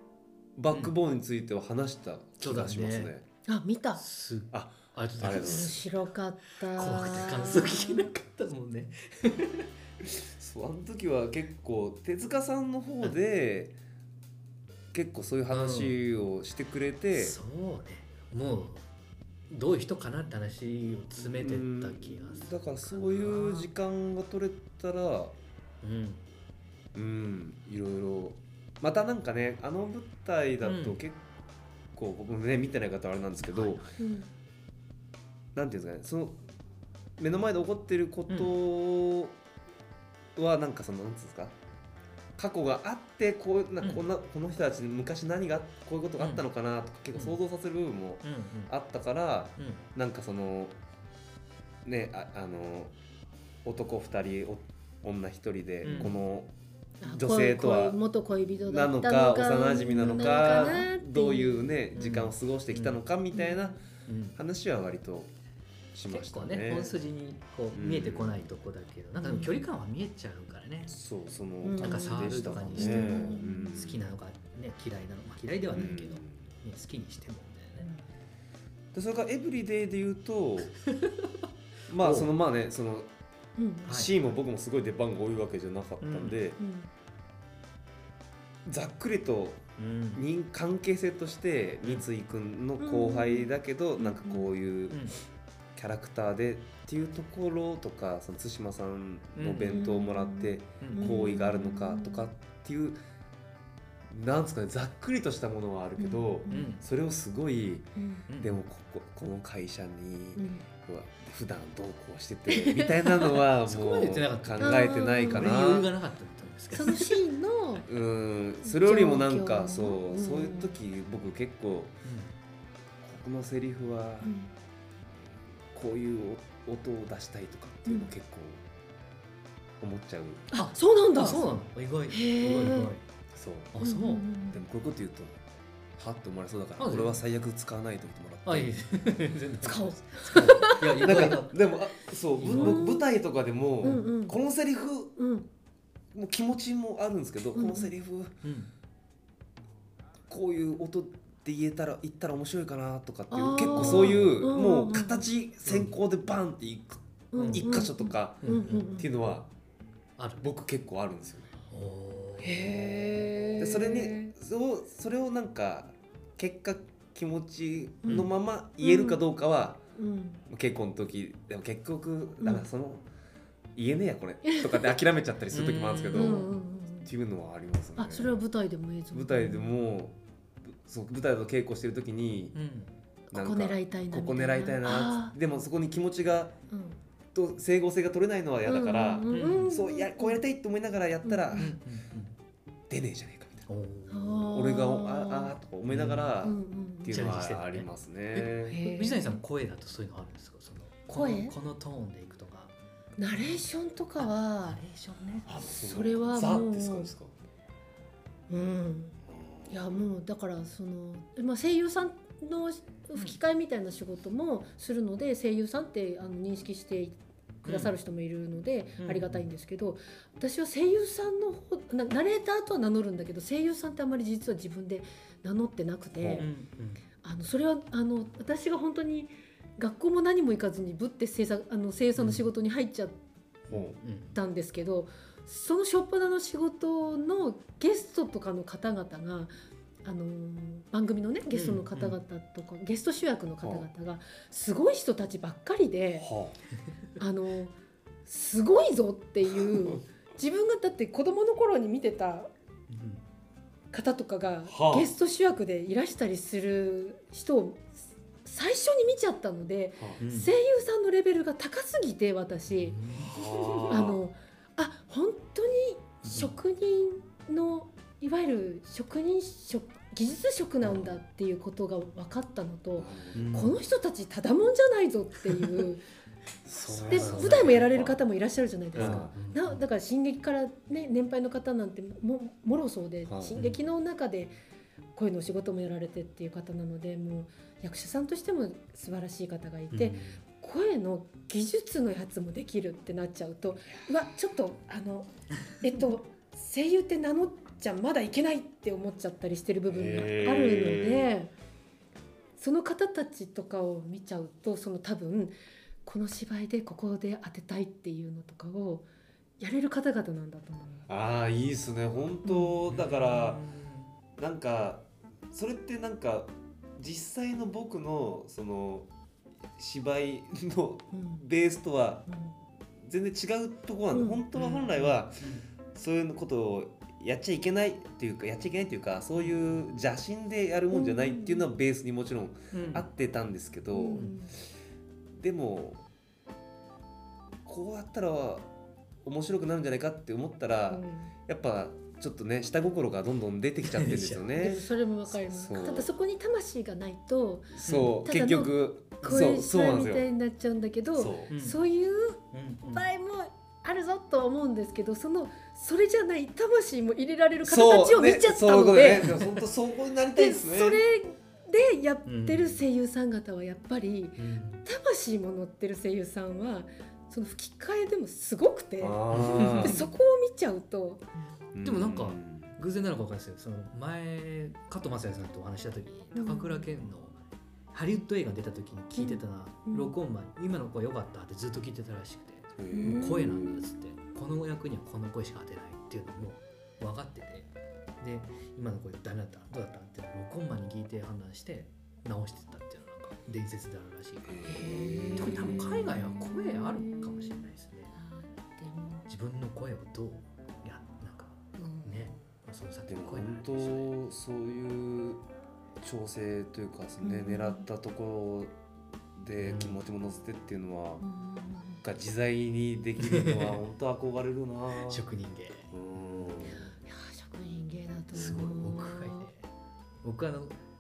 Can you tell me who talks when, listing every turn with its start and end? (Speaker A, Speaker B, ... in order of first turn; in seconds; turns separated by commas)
Speaker A: 0.6-3.2, Speaker B: 2.4-3.1, Speaker C: 3.5-4.0, Speaker B: 4.0-5.8, Speaker A: 4.5-5.8, Speaker C: 5.2-8.1, Speaker B: 6.8-9.7, Speaker A: 10.2-13.8, Speaker A: 14.9-17.4, Speaker B: 15.5-16.0, Speaker B: 17.1-18.9, Speaker B: 19.5-23.7, Speaker A: 21.4-25.3, Speaker B: 25.8-26.2, Speaker A: 26.9-31.2, Speaker B: 30.6-31.0, Speaker A: 31.9-33.8, Speaker B: 33.4-34.0, Speaker C: 34.0-34.3, Speaker A: 35.5-36.4, Speaker A: 37.2-39.4, Speaker A: 40.4-41.5, Speaker A: 42.4-50.8, Speaker B: 46.2-46.5, Speaker B: 48.2-48.7, Speaker B: 49.6-49.8, Speaker A: 51.8-52.9, Speaker A: 53.6-56.5, Speaker B: 55.8-56.2, Speaker C: 57.0-61.7, Speaker A: 57.1-58.0, Speaker A: 58.7-63.8, Speaker B: 62.0-63.0, Speaker C: 63.4-63.7, Speaker B: 64.1-64.4, Speaker A: 64.4-65.3, Speaker A: 65.9-67.0, Speaker B: 66.1-70.9, Speaker A: 67.7-68.5, Speaker C: 69.2-69.6, Speaker A: 70.9-74.0, Speaker C: 71.6-73.7, Speaker B: 71.8-77.9, Speaker A: 75.7-76.5, Speaker A: 78.9-80.8, Speaker B: 80.8-81.4, Speaker A: 81.9-83.1, Speaker B: 82.0-82.3, Speaker C: 83.6-84.0, Speaker B: 83.9-84.1, Speaker A: 83.9-86.6, Speaker B: 86.0-86.4, Speaker C: 86.6-86.9, Speaker A: 88.7-95.1, Speaker B: 89.8-90.3, Speaker C: 92.8-94.5, Speaker A: 95.8-103.0, Speaker B: 99.4-99.9, Speaker C: 99.7-102.3, Speaker B: 100.8-101.1, Speaker A: 104.1-107.9, Speaker C: 106.0-106.7, Speaker B: 106.5-106.8, Speaker C: 108.0-108.2, Speaker B: 108.3-108.6, Speaker A: 108.4-115.9, Speaker C: 110.4-110.6, Speaker C: 112.5-113.4, Speaker B: 113.7-117.2, Speaker C: 114.6-115.6, Speaker C: 116.7-117.9, Speaker A: 117.8-122.0, Speaker C: 118.7-120.8, Speaker B: 122.0-122.3, Speaker A: 123.0-124.3, Speaker C: 124.2-124.5, Speaker A: 125.7-128.6, Speaker A: 129.8-130.5, Speaker C: 130.5-131.4, Speaker B: 130.5-133.0, Speaker C: 132.1-132.9, Speaker A: 133.3-133.7, Speaker B: 133.7-134.3, Speaker C: 133.8-134.6, Speaker A: 134.5-135.4, Speaker A: 136.0-138.7, Speaker B: 136.8-137.2, Speaker B: 138.5-141.6, Speaker C: 139.6-141.3, Speaker A: 140.9-145.1, Speaker B: 142.4-142.9, Speaker C: 142.5-143.1, Speaker C: 143.8-144.4, Speaker C: 145.2-145.5, Speaker A: 146.1-148.4, Speaker C: 147.6-147.9, Speaker B: 148.4-148.7, Speaker A: 150.3-159.5, Speaker C: 153.3-155.3, Speaker B: 153.7-154.4, Speaker B: 155.7-155.9, Speaker C: 157.3-159.1, Speaker B: 157.3-157.8, Speaker B: 158.4-158.9, Speaker B: 160.2-160.5, Speaker A: 160.4-161.5, Speaker B: 161.7-162.9, Speaker C: 162.4-164.3, Speaker A: 162.7-169.8, Speaker C: 168.8-169.2, Speaker C: 170.0-170.4, Speaker A: 170.5-173.1, Speaker C: 172.4-172.7, Speaker A: 173.8-178.4, Speaker C: 174.4-175.0, Speaker B: 175.5-176.6, Speaker C: 176.1-177.1, Speaker C: 178.0-179.8, Speaker A: 179.1-180.2, Speaker A: 180.7-182.6, Speaker B: 182.6-182.9, Speaker C: 183.3-185.3, Speaker A: 183.3-186.6, Speaker C: 186.7-187.0, Speaker A: 187.3-191.7, Speaker C: 188.7-190.4, Speaker B: 189.3-189.7, Speaker C: 191.2-191.7, Speaker B: 191.6-192.4, Speaker A: 192.9-193.7, Speaker B: 193.7-194.6, Speaker C: 194.1-195.6, Speaker A: 194.5-198.8, Speaker B: 195.9-196.4, Speaker C: 196.4-197.3, Speaker B: 197.1-202.7, Speaker C: 198.7-199.4, Speaker C: 201.1-201.6, Speaker C: 203.2-204.8, Speaker B: 203.3-203.6, Speaker B: 204.2-205.5, Speaker A: 205.5-207.3, Speaker C: 205.7-207.1, Speaker C: 208.5-209.2, Speaker A: 209.4-209.7, Speaker C: 209.7-226.5, Speaker B: 217.7-217.9, Speaker B: 219.0-219.5, Speaker A: 226.2-226.5, Speaker B: 226.4-227.0, Speaker C: 227.2-233.2, Speaker B: 232.2-232.4, Speaker A: 233.7-234.0, Speaker B: 233.7-234.4, Speaker C: 234.3-239.5, Speaker C: 240.0-246.3, Speaker B: 241.5-242.2, Speaker A: 243.6-243.9, Speaker A: 246.2-246.6, Speaker C: 247.2-247.8, Speaker C: 248.3-252.5, Speaker B: 252.9-253.2, Speaker C: 253.9-257.9, Speaker A: 254.7-255.1, Speaker C: 258.4-263.0, Speaker B: 260.2-260.5, Speaker B: 262.7-263.8, Speaker A: 263.3-264.2, Speaker C: 263.8-276.1, Speaker B: 266.2-266.6, Speaker A: 273.0-273.6, Speaker B: 273.4-273.8, Speaker A: 276.7-278.2, Speaker B: 276.9-277.8, Speaker C: 277.1-284.6, Speaker A: 278.9-279.3, Speaker B: 278.9-279.8, Speaker A: 283.3-283.6, Speaker B: 283.6-283.8, Speaker C: 285.1-295.3, Speaker B: 289.9-290.4, Speaker C: 295.8-301.5, Speaker A: 299.9-301.3, Speaker C: 302.6-309.1, Speaker C: 309.6-311.1, Speaker A: 311.1-313.6, Speaker C: 312.4-312.8, Speaker B: 312.9-314.1, Speaker A: 314.4-319.1, Speaker A: 319.8-322.3, Speaker C: 321.1-321.4, Speaker C: 322.3-322.5, Speaker A: 323.0-334.3, Speaker C: 324.1-324.4, Speaker B: 324.5-325.7, Speaker B: 329.4-329.8, Speaker C: 330.9-331.7, Speaker B: 332.7-333.1, Speaker C: 333.9-334.5, Speaker A: 335.4-336.0, Speaker A: 337.6-338.7, Speaker A: 339.2-344.9, Speaker C: 340.9-341.3, Speaker B: 343.8-344.4, Speaker C: 344.6-359.4, Speaker A: 345.4-346.1, Speaker A: 347.7-350.3, Speaker B: 347.9-348.1, Speaker A: 351.1-351.5, Speaker B: 351.5-351.8, Speaker B: 352.5-353.1, Speaker A: 357.6-361.0, Speaker C: 360.4-371.2, Speaker B: 362.3-362.8, Speaker B: 364.4-364.8, Speaker A: 369.0-370.1, Speaker B: 369.3-370.0, Speaker A: 371.7-372.7, Speaker B: 371.8-377.4, Speaker C: 376.3-376.9, Speaker B: 377.9-387.7, Speaker C: 379.1-380.1, Speaker A: 382.8-383.9, Speaker C: 382.9-383.6, Speaker B: 388.2-398.1, Speaker A: 394.5-395.9, Speaker C: 394.6-397.5, Speaker C: 398.3-399.3, Speaker B: 399.3-404.1, Speaker C: 401.8-402.3, Speaker A: 403.1-405.4, Speaker A: 406.0-408.7, Speaker C: 407.2-407.9, Speaker A: 409.4-411.2, Speaker B: 409.6-410.0, Speaker C: 411.2-412.0, Speaker A: 412.0-415.2, Speaker B: 413.2-413.8, Speaker B: 415.1-415.9, Speaker A: 415.9-416.9, Speaker C: 417.0-419.5, Speaker B: 418.3-419.6, Speaker B: 420.2-420.8